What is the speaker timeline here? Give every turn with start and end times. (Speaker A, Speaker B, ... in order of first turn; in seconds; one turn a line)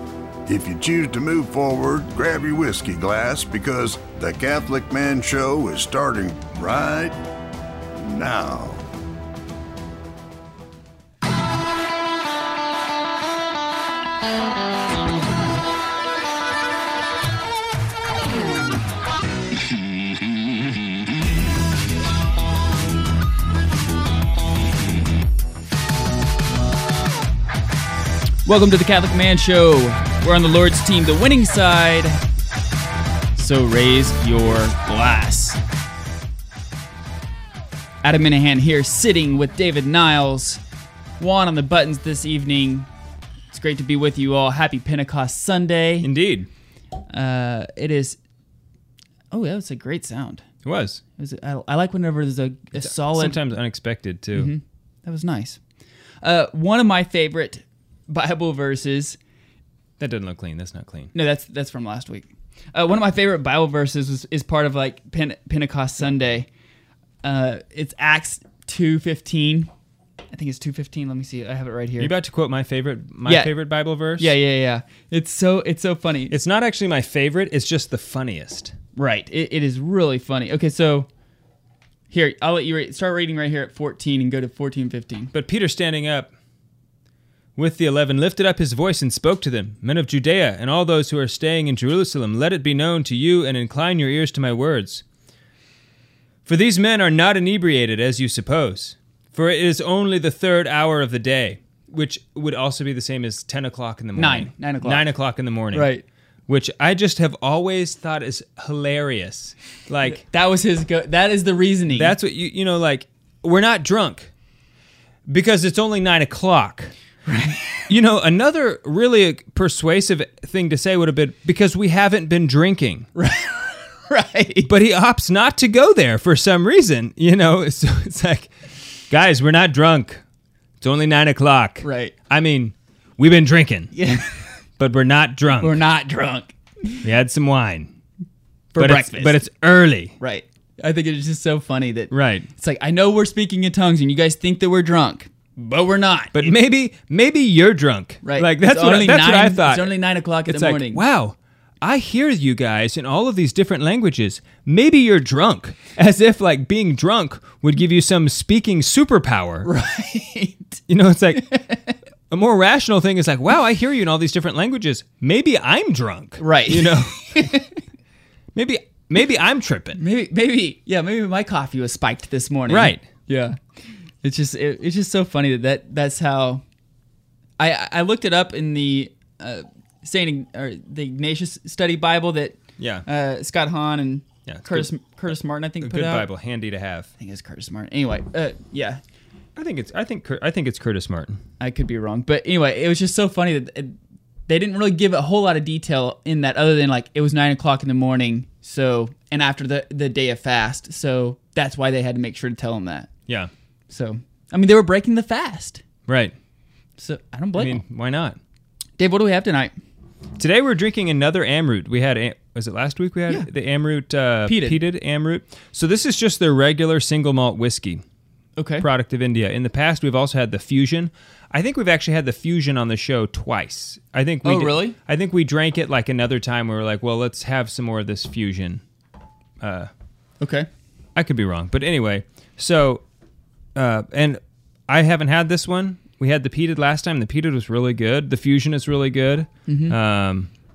Speaker A: 0.5-7.2
Speaker A: 8.0-8.8
Speaker B: 28.4-32.2
Speaker B: 33.4-35.6
Speaker B: 38.0-40.6
Speaker B: 41.2-42.9
Speaker B: 43.5-46.1
Speaker C: 46.0-46.5
Speaker B: 47.1-48.2
Speaker B: 49.3-50.5
Speaker C: 50.6-51.0
Speaker B: 51.2-53.4
Speaker C: 52.8-54.5
Speaker B: 54.3-55.6
Speaker B: 56.2-59.2
Speaker C: 60.0-61.1
Speaker B: 61.1-66.5
Speaker B: 67.2-69.7
Speaker B: 70.3-72.1
Speaker C: 72.0-74.3
Speaker B: 73.2-73.5
Speaker B: 74.2-76.3
Speaker C: 76.3-78.7
Speaker B: 79.0-81.1
Speaker B: 82.1-85.3
Speaker C: 85.3-86.3
Speaker C: 87.5-95.0
Speaker C: 96.5-105.9
Speaker B: 104.2-105.0
Speaker B: 105.7-106.0
Speaker C: 106.5-110.2
Speaker B: 110.0-112.2
Speaker C: 111.9-114.3
Speaker C: 115.3-116.9
Speaker B: 117.2-117.9
Speaker C: 117.9-123.1
Speaker B: 123.1-124.7
Speaker C: 124.7-128.5
Speaker C: 129.1-130.2
Speaker C: 130.8-133.9
Speaker B: 131.8-132.1
Speaker B: 133.9-134.4
Speaker C: 134.8-135.8
Speaker B: 135.6-137.0
Speaker C: 137.0-137.9
Speaker B: 138.7-139.4
Speaker C: 138.8-140.2
Speaker B: 140.2-146.5
Speaker C: 142.1-142.5
Speaker C: 146.3-159.7
Speaker B: 148.2-151.0
Speaker B: 159.6-160.8
Speaker C: 160.9-161.6
Speaker B: 161.3-161.9
Speaker C: 162.3-167.5
Speaker B: 166.4-167.8
Speaker C: 168.5-170.0
Speaker B: 169.9-173.6
Speaker C: 172.7-173.1
Speaker B: 174.2-176.6
Speaker B: 177.6-186.3
Speaker C: 182.8-183.0
Speaker C: 184.4-184.9
Speaker C: 185.8-187.1
Speaker B: 187.2-189.0
Speaker C: 189.6-191.4
Speaker B: 191.6-193.9
Speaker B: 194.5-203.1
Speaker B: 203.9-205.8
Speaker C: 206.1-206.3
Speaker B: 207.0-207.8
Speaker C: 207.6-208.4
Speaker B: 209.0-209.7
Speaker C: 210.4-218.0
Speaker B: 214.4-214.8
Speaker B: 218.6-218.9
Speaker C: 218.8-228.8
Speaker B: 224.4-225.0
Speaker C: 229.6-229.9
Speaker B: 230.4-230.7
Speaker C: 231.2-233.0
Speaker C: 233.7-240.5
Speaker B: 239.7-239.9